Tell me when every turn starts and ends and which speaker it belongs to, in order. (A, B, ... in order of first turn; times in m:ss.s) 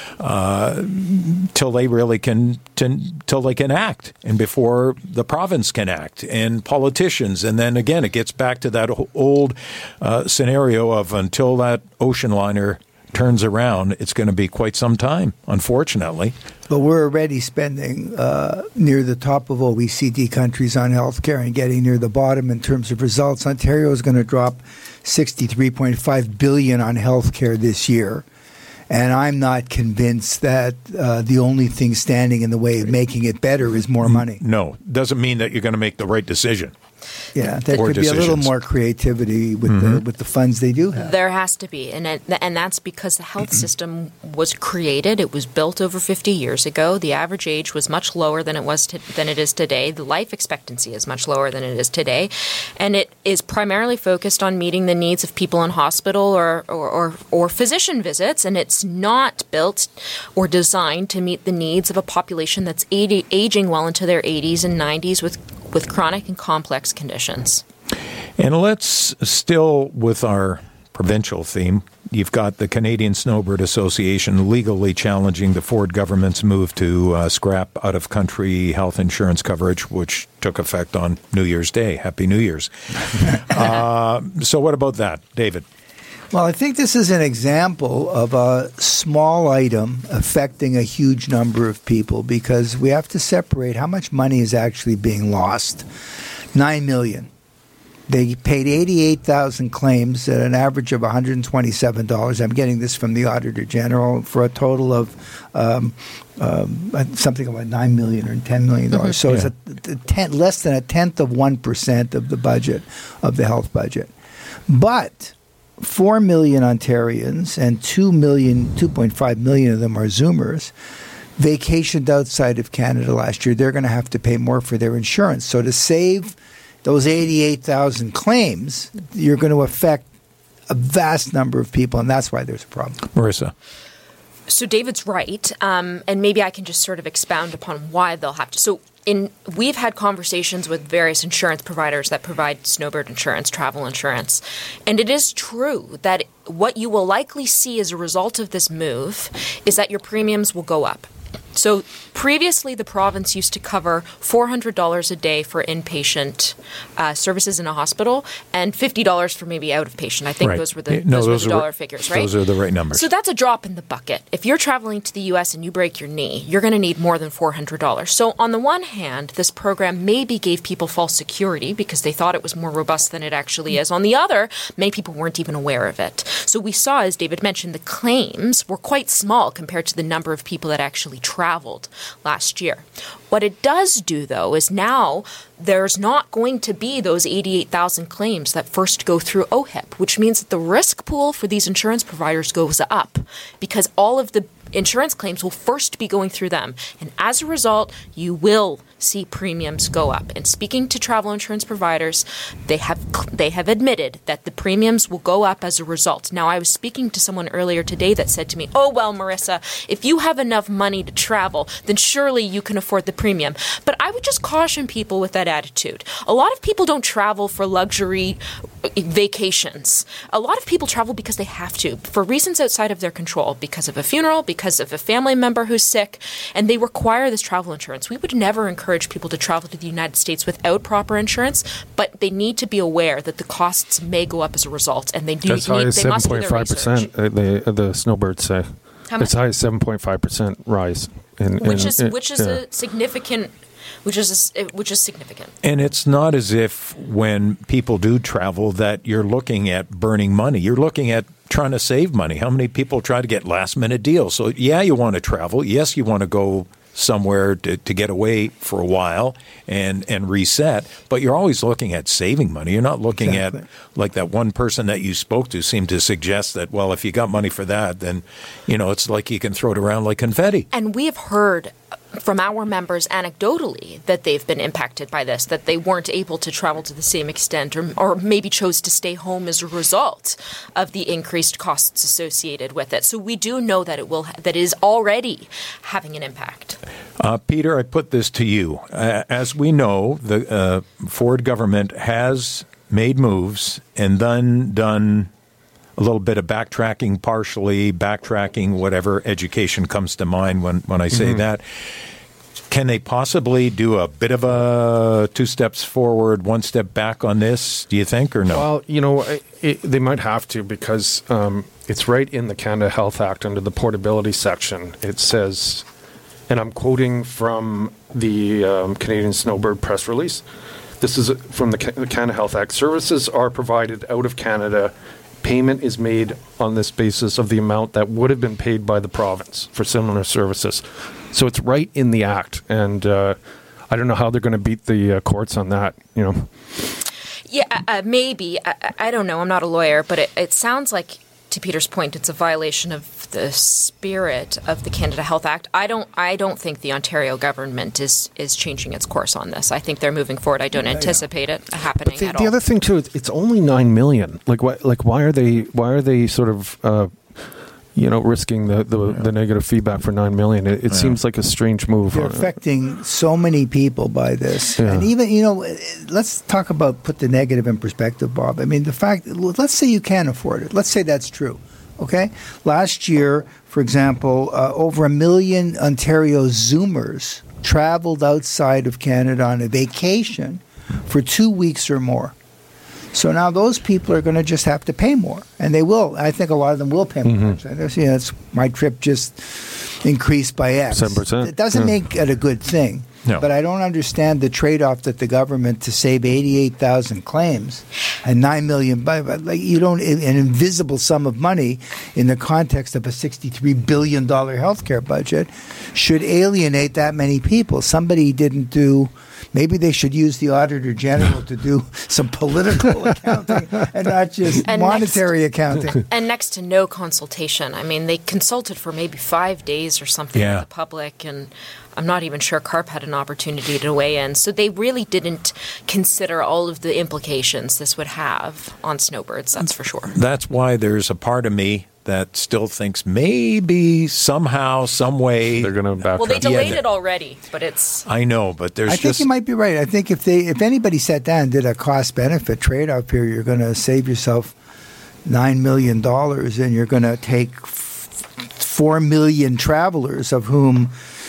0:00.2-0:16.3 A
0:16.7-0:28.2 B
0:28.9-0:34.4 B
0:34.0-0:36.7 A
0:37.3-0:41.1 B
0:37.7-0:38.5 A
0:39.7-0:40.0 A
0:41.0-1:07.6 C
1:08.4-1:25.6 A
1:26.3-1:35.8 B
1:36.5-1:37.3 B
1:38.1-1:54.1 B
1:54.7-2:00.7 B
2:01.4-2:10.0 B
2:10.7-2:13.1 B
2:13.1-2:13.5 A
2:14.5-2:42.4 C
2:40.4-2:43.1 A
2:42.9-3:57.1 C
3:55.4-4:02.6 D
3:59.1-3:59.3 C
4:01.6-4:03.5 C
4:04.0-4:05.5 C
4:05.6-4:30.7 A
4:23.1-4:23.6 B
4:30.7-4:46.8 C
4:47.2-4:55.3 A
4:56.0-5:01.6 A
5:01.1-5:01.4 D
5:02.7-5:08.7 A
5:08.5-5:15.8 D
5:16.5-5:20.4 D
5:21.0-5:33.4 D
5:33.9-5:36.5 D
5:37.5-5:52.6 C
5:50.9-5:51.2 B
5:52.0-6:02.5 D
6:00.9-6:01.2 A
6:02.1-6:22.3 B
6:04.8-6:05.1 D
6:23.1-6:56.0 B
6:27.2-6:27.6 D
6:30.9-6:32.0 D
6:54.6-6:55.3 C
6:55.9-7:10.1 C
7:00.3-7:00.6 A
7:10.1-7:16.8 A
7:15.6-7:16.8 D
7:16.1-7:18.0 C
7:18.1-7:19.2 A
7:18.9-7:24.6 B
7:25.2-7:30.9 B